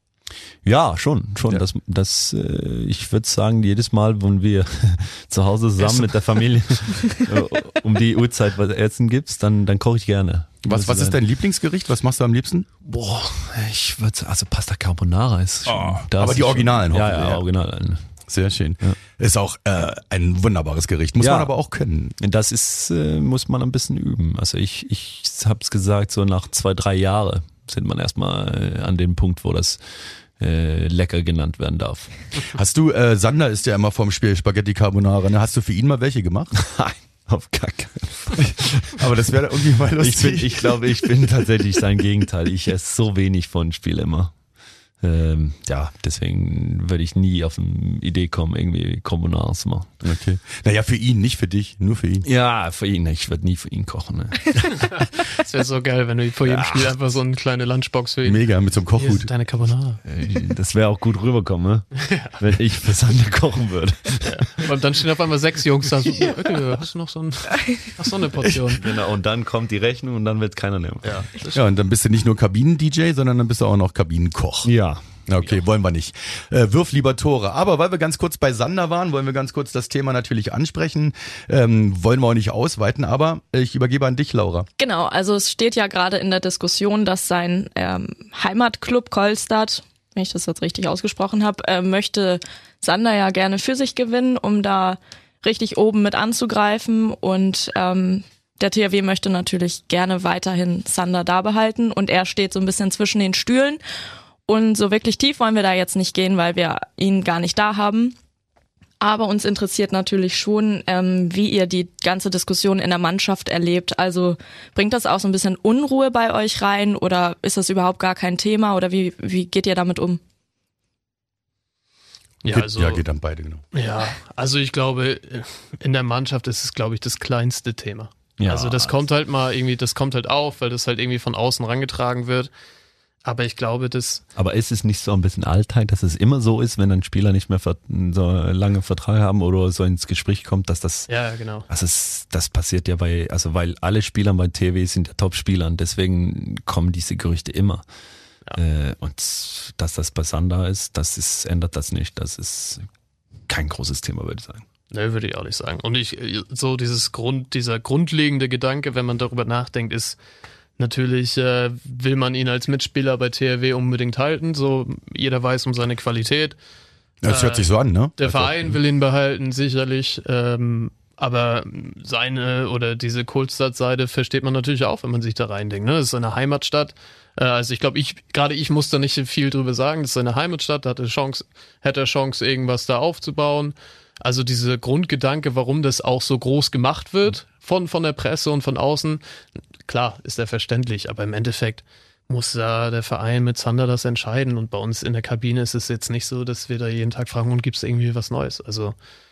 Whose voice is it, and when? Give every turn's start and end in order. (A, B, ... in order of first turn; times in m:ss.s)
0:00.6-0:11.2 A
0:10.6-0:12.7 B
0:12.8-0:18.0 A
0:15.7-0:17.4 B
0:18.3-0:22.1 B
0:21.2-0:21.5 A
0:22.2-0:29.8 A
0:30.4-0:32.1 A
0:32.5-0:36.5 B
0:36.6-0:39.0 A
0:38.9-0:41.1 B
0:40.0-0:44.3 A
0:45.0-0:49.9 A
0:50.0-0:52.3 B
0:52.2-0:55.0 A
0:54.9-0:58.4 C
0:56.4-0:57.0 A
0:58.2-0:59.3 B
0:58.9-1:00.0 C
1:00.0-1:04.6 A
1:02.0-1:02.3 C
1:04.2-1:08.8 C
1:08.6-1:11.5 A
1:11.0-1:11.5 C
1:11.5-1:14.7 B
1:14.6-1:15.5 A
1:15.3-1:24.7 B
1:24.8-1:43.8 D
1:44.5-1:48.2 D
1:49.0-2:00.2 D
2:02.4-2:03.0 C
2:02.4-2:03.6 B
2:03.7-2:12.5 C
2:08.4-2:09.0 A
2:13.2-2:14.2 C
2:14.4-2:21.1 A
2:21.1-2:21.6 C
2:21.7-2:27.8 A
2:28.6-2:32.9 A
2:33.5-2:34.6 A
2:34.9-2:40.2 C
2:40.8-2:46.6 C
2:47.2-2:48.8 B
2:47.2-3:09.2 C
3:09.8-3:18.9 C